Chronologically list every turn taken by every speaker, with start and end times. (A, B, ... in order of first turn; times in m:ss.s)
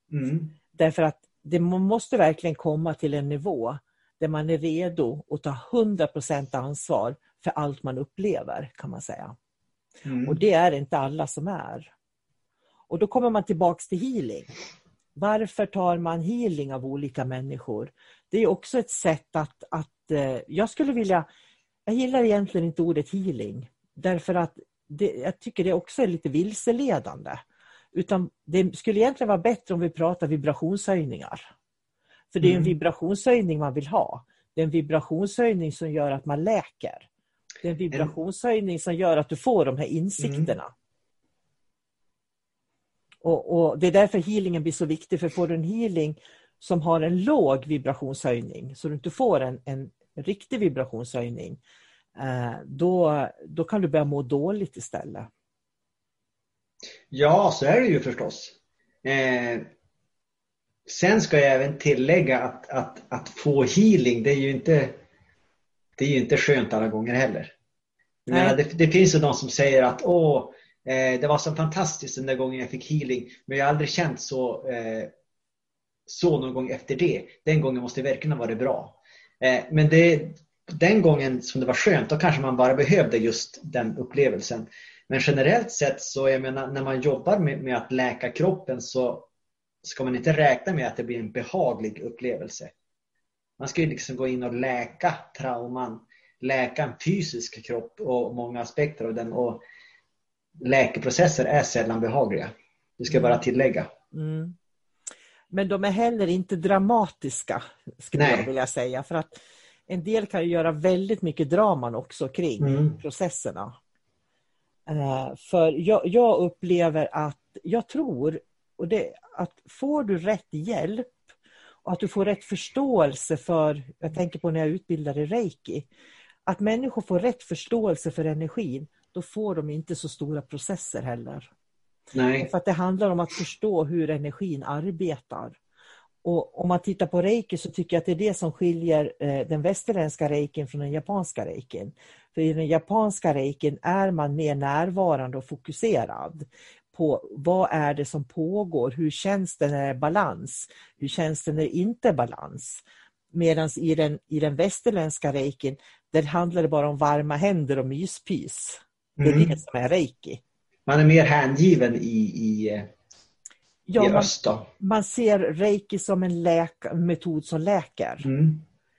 0:00.1-0:00.5 A
0:00.7-0:09.3 B
0:10.0-0:10.4 A
0:10.2-0:11.9 B
0:12.9-0:14.5 B
0:15.2-0:21.2 B
0:21.9-0:27.4 B
0:27.9-0:31.5 B
0:32.3-0:37.1 B
0:32.4-0:32.7 A
0:37.6-0:40.7 B
0:40.2-0:40.5 A
0:43.2-0:51.6 B
0:52.2-0:55.3 B
0:57.1-0:59.7 A
1:00.9-1:05.0 A
1:06.0-1:07.5 A
1:08.2-1:15.1 A
1:08.3-1:08.6 B
1:16.1-1:29.3 A
1:29.8-1:32.7 A
1:33.6-1:39.6 A
1:40.6-1:43.9 A
1:43.1-1:43.4 B
1:44.1-1:44.6 B
1:45.5-1:53.7 B
1:48.1-1:48.5 A
1:52.6-1:53.0 A
1:54.9-2:01.1 B
2:01.8-2:05.9 B
2:06.5-2:11.5 B
2:12.1-2:12.5 A
2:12.4-2:15.6 B
2:16.2-2:32.8 B
2:33.3-2:40.4 B
2:39.2-2:39.6 A
2:40.9-2:42.9 A
2:43.9-2:48.3 B
2:44.0-2:44.7 A
2:48.2-2:48.6 A